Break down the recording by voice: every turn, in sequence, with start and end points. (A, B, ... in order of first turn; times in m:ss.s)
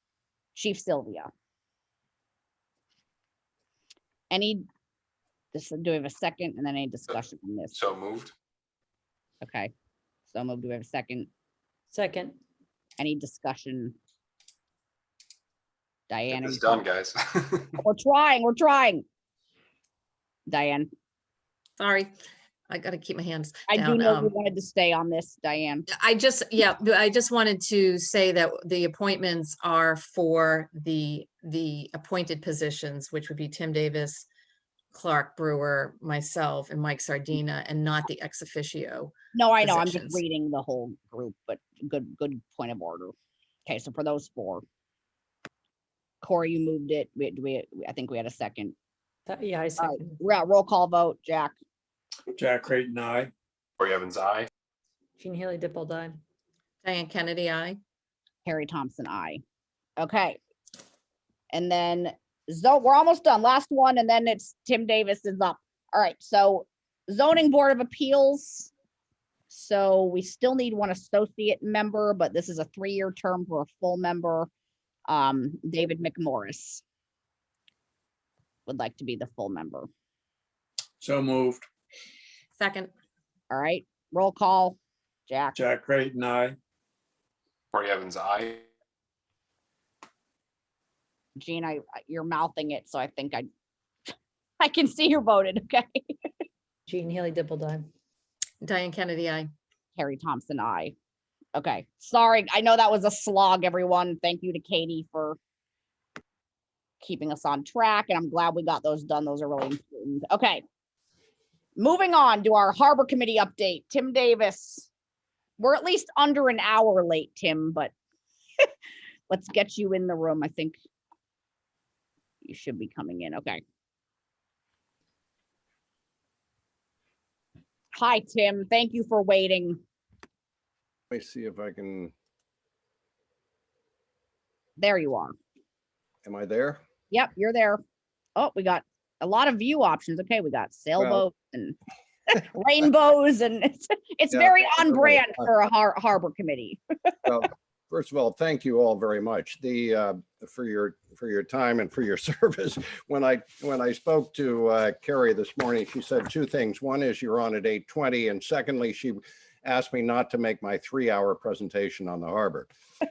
0:00.6-0:01.3 A
0:04.3-0:04.7 A
0:05.5-0:07.8 A
0:07.7-0:08.3 B
0:09.4-0:09.7 A
0:10.3-0:11.3 A
0:11.9-0:12.4 C
0:13.0-0:13.9 A
0:16.1-0:16.8 A
0:16.3-0:17.8 B
0:17.8-0:19.0 A
0:20.5-0:20.9 A
0:21.8-0:22.1 D
0:22.7-0:24.3 D
0:23.7-0:25.9 A
0:25.9-0:34.2 D
0:34.9-0:40.2 D
0:39.3-0:43.1 A
0:43.7-0:44.6 A
0:46.2-0:48.8 A
0:49.3-0:50.2 C
0:49.8-0:51.6 A
0:52.4-0:53.3 E
0:53.8-0:54.5 B
0:55.2-0:56.2 C
0:56.8-0:57.8 D
0:58.4-0:59.4 A
1:00.0-1:00.4 A
1:01.5-1:08.7 A
1:09.5-1:14.5 A
1:15.1-1:16.8 A
1:18.7-1:19.9 A
1:21.0-1:21.7 E
1:22.6-1:22.9 D
1:23.5-1:24.8 A
1:25.3-1:25.6 A
1:25.6-1:26.6 E
1:27.7-1:28.7 B
1:31.4-1:33.5 A
1:34.6-1:36.2 A
1:36.9-1:37.9 C
1:38.6-1:39.5 D
1:40.0-1:40.9 A
1:41.6-1:45.4 A
1:47.0-1:50.6 A
1:51.8-1:54.9 A
1:55.6-1:57.9 A
1:59.3-2:00.8 A
2:02.4-2:03.6 A
2:07.9-2:09.8 A
2:11.1-2:12.1 F
2:14.8-2:15.3 A
2:16.2-2:16.8 F
2:17.1-2:17.8 A
2:18.4-2:21.8 A
2:21.0-2:21.2 F
2:22.3-2:26.8 A
2:24.3-2:25.4 F
2:27.2-2:42.7 F